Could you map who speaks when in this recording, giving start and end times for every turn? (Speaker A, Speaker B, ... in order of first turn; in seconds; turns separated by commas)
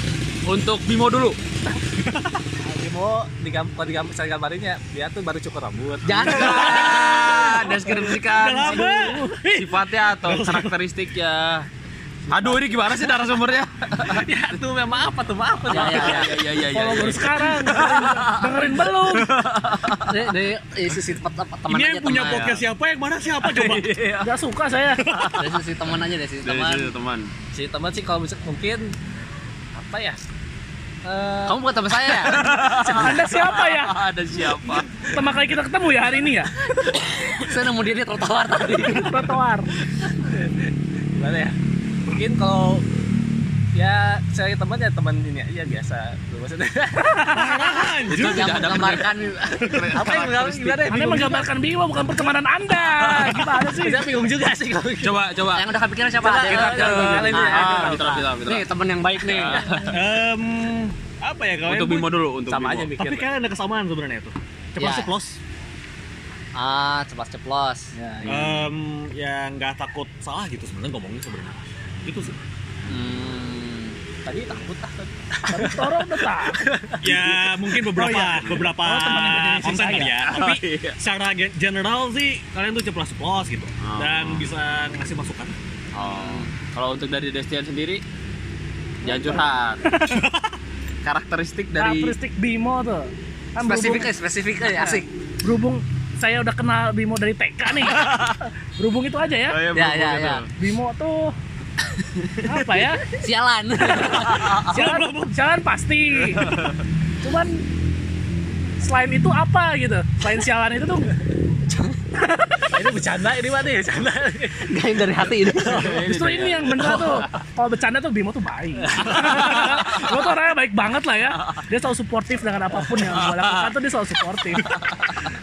Speaker A: 0.5-1.4, Speaker B: 2.0-2.4, Speaker C: 2.6-7.0, Speaker D: 6.0-7.5, Speaker A: 6.2-8.9, Speaker B: 6.2-10.7, Speaker C: 8.7-9.1, Speaker E: 8.7-9.2, Speaker A: 9.5-11.7, Speaker A: 12.3-14.3, Speaker C: 12.3-13.0, Speaker C: 14.0-16.4, Speaker A: 15.7-20.3, Speaker D: 15.7-16.4, Speaker E: 16.6-19.3, Speaker D: 20.1-22.5, Speaker B: 21.7-23.9, Speaker A: 22.3-22.6, Speaker A: 23.4-24.3, Speaker E: 24.2-25.0, Speaker B: 25.0-25.5, Speaker A: 25.1-25.4, Speaker D: 25.3-26.9, Speaker A: 26.4-27.3, Speaker C: 27.5-28.9, Speaker C: 29.7-30.2, Speaker C: 31.0-33.3, Speaker D: 31.4-32.4, Speaker A: 32.2-35.0, Speaker E: 32.9-34.0, Speaker E: 35.1-36.5, Speaker C: 36.7-37.1, Speaker D: 37.3-39.2, Speaker E: 38.8-39.7, Speaker C: 40.0-42.8, Speaker C: 43.7-48.0, Speaker B: 47.2-48.8, Speaker A: 48.1-50.9, Speaker D: 48.1-50.3, Speaker C: 49.8-51.5, Speaker E: 50.9-54.1, Speaker A: 53.0-53.5, Speaker C: 53.2-55.2, Speaker A: 55.0-55.7, Speaker D: 55.5-59.6, Speaker C: 56.2-58.2, Speaker A: 56.4-59.9, Speaker C: 59.5-60.0, Speaker B: 59.9-62.1, Speaker A: 61.6-62.9, Speaker C: 62.5-63.3, Speaker B: 63.0-65.4, Speaker D: 64.8-65.1, Speaker D: 66.5-67.9, Speaker C: 67.9-68.5, Speaker B: 68.2-72.3, Speaker D: 72.9-74.0, Speaker C: 74.2-77.3, Speaker E: 75.5-76.6, Speaker B: 77.0-85.5, Speaker E: 77.9-80.2, Speaker A: 78.4-78.7, Speaker A: 80.2-81.0, Speaker A: 83.8-84.4, Speaker A: 85.9-88.0, Speaker D: 86.0-86.5, Speaker A: 89.0-89.8, Speaker E: 89.8-90.2, Speaker B: 90.1-90.5, Speaker A: 91.0-92.1, Speaker E: 91.8-94.1, Speaker D: 93.6-95.0, Speaker E: 94.8-98.1, Speaker A: 97.8-98.4, Speaker E: 98.8-99.6, Speaker A: 99.5-100.5, Speaker D: 99.7-100.4, Speaker E: 100.6-101.3, Speaker E: 102.4-103.1, Speaker D: 103.2-104.6, Speaker E: 103.9-106.5, Speaker B: 104.0-105.4, Speaker A: 104.3-104.6, Speaker A: 106.4-106.8, Speaker E: 107.2-107.6, Speaker E: 108.8-111.1, Speaker C: 112.7-114.7, Speaker D: 114.7-116.0, Speaker A: 115.6-117.3, Speaker E: 116.0-124.7, Speaker C: 118.8-119.8, Speaker A: 119.0-120.3, Speaker A: 122.9-123.7, Speaker A: 124.5-125.1